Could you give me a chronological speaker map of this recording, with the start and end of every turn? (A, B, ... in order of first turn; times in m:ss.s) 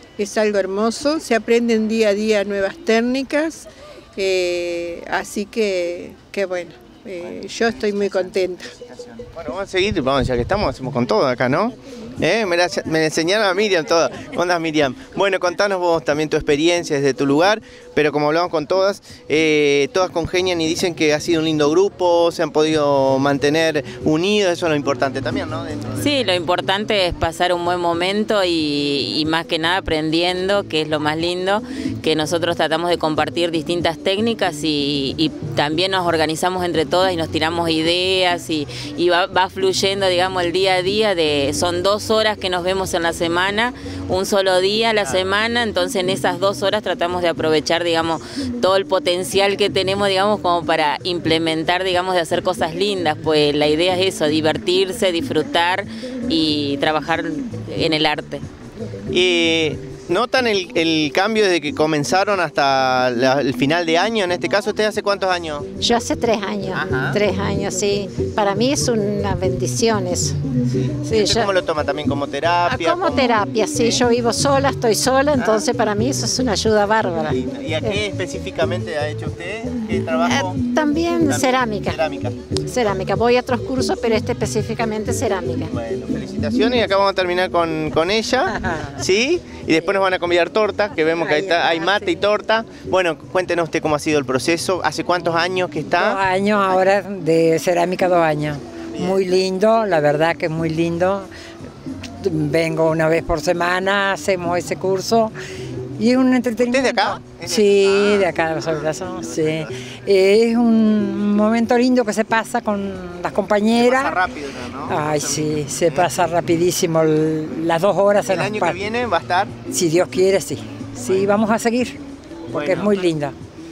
0:00.2-0:08.7 A
0:07.2-0:26.3 B
0:26.0-0:58.4 C
0:45.0-0:45.3 B
0:59.1-1:05.7 B
1:05.8-1:10.3 D
1:06.7-1:07.2 B
1:10.7-1:14.0 B
1:11.0-1:11.5 D
1:12.7-1:18.0 D
1:15.4-1:15.7 B
1:17.2-1:20.6 B
1:20.3-1:22.0 D
1:21.3-1:23.0 B
1:22.6-1:25.7 D
1:25.6-1:36.2 B
1:28.5-1:29.0 E
1:31.2-1:32.1 E
1:35.9-1:41.3 E
1:42.2-1:45.3 E
1:46.0-1:54.2 E
1:46.6-1:49.7 B
1:53.7-1:56.1 B
1:54.9-1:58.8 E
1:58.3-1:59.5 B
1:59.7-2:02.0 E
2:01.1-2:01.3 B
2:02.5-2:03.3 E
2:02.5-2:03.1 B